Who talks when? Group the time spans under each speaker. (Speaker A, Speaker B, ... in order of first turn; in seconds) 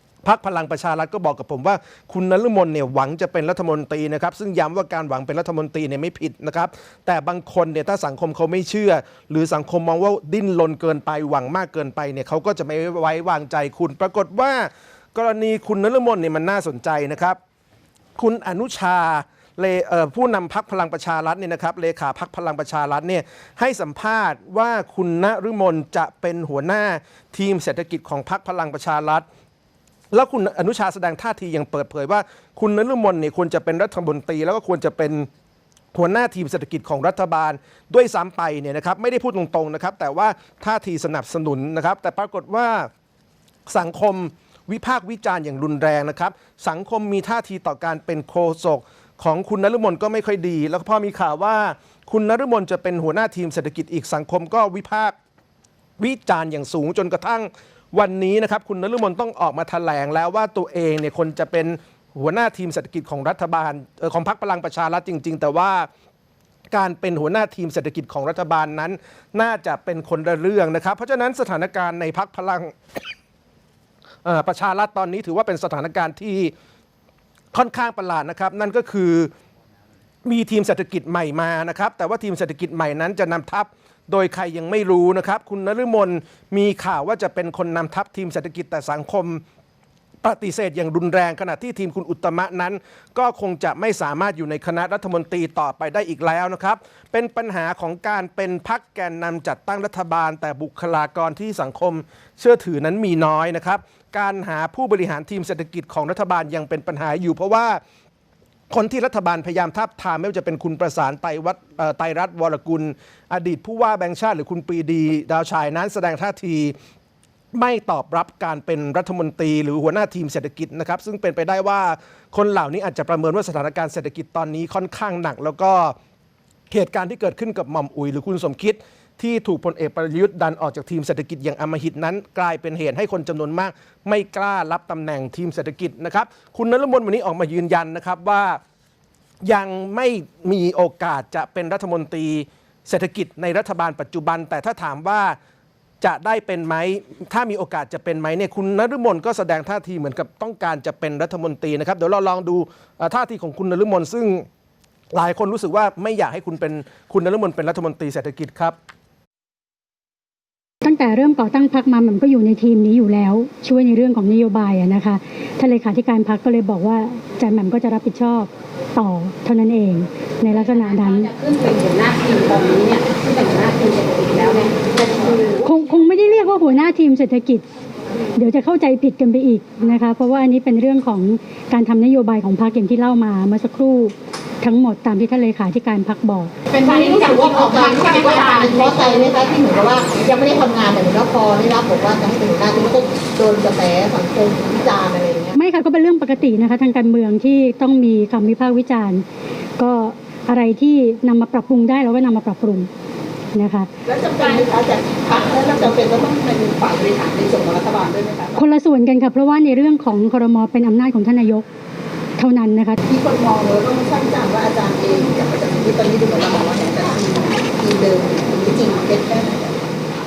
Speaker A: 0.2-17.4, 18.2-29.2, 30.1-35.3, 35.9-42.9, 43.7-55.1, 56.0-65.9, 66.7-72.8, 74.2-76.5, 77.5-79.3, 80.2-89.4, 90.2-107.8, 108.7-116.8, 117.5-126.0, 126.7-138.6, 139.4-145.4, 146.0-154.5, 155.1-158.8
Speaker B: 160.8-171.3, 175.6-177.7, 178.4-186.5, 195.6-199.2, 199.8-202.9, 203.6-203.9, 208.6-211.6, 212.4-213.0
Speaker C: 170.9-175.7, 186.7-189.4
Speaker D: 186.8-195.6, 204.1-208.6, 213.0-219.8